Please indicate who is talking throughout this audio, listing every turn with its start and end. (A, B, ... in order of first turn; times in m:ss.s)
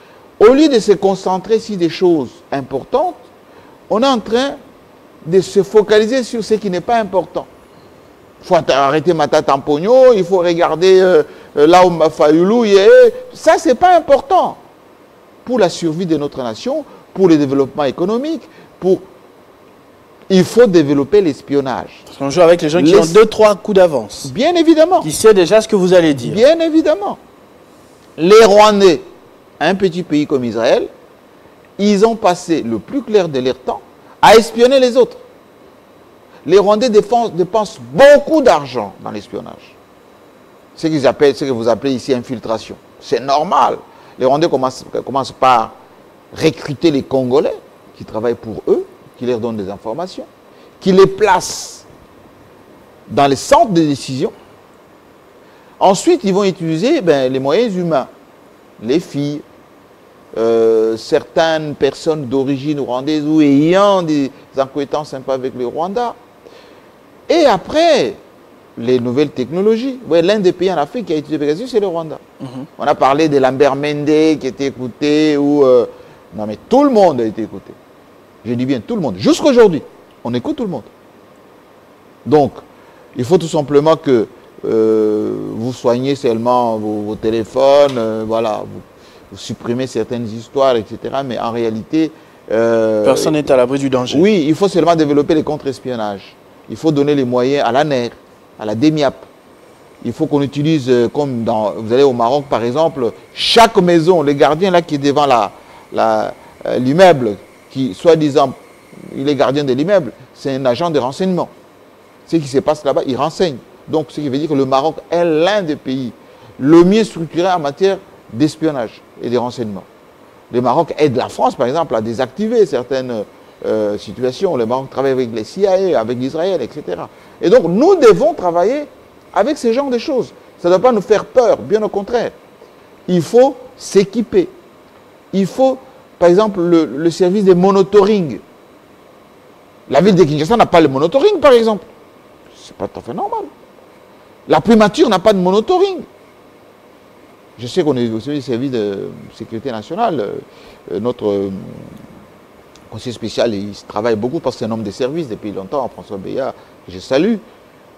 0:00.4-0:03.3 A
0:03.9-0:04.6 A
0:05.2-0:07.5 A
0:08.4-0:14.6 A
0:15.4-0:19.0 A
0:20.3-0:22.0 A
0:22.1-0:24.3 B
0:22.8-0:23.2 A
0:24.2-0:25.1 A
0:25.0-0:26.4 B
0:26.2-0:27.2 A
0:28.2-0:29.0 A
0:29.6-0:30.9 A
0:31.8-0:35.2 A
0:36.4-0:39.8 A
0:40.8-0:45.8 A
0:46.3-0:50.3 A
0:50.8-0:51.9 A
0:53.1-0:54.3 A
0:55.8-0:58.1 A
0:58.8-0:59.4 A
1:00.3-1:06.2 A
1:07.3-1:08.2 A
1:08.8-1:12.2 A
1:12.4-1:12.7 B
1:12.8-1:17.8 A
1:18.4-1:20.9 A
1:22.2-1:22.6 A
1:23.2-1:33.4 A
1:33.0-1:34.3 B
1:34.1-1:39.3 A
1:40.0-1:51.5 A
1:52.3-1:59.9 A
2:00.5-2:12.4 A
2:13.1-2:14.5 A
2:15.3-2:18.4 A
2:19.9-2:21.9 A
2:22.5-2:23.5 A
2:24.5-2:26.1 A
2:27.6-2:32.0 A
2:32.9-2:37.4 A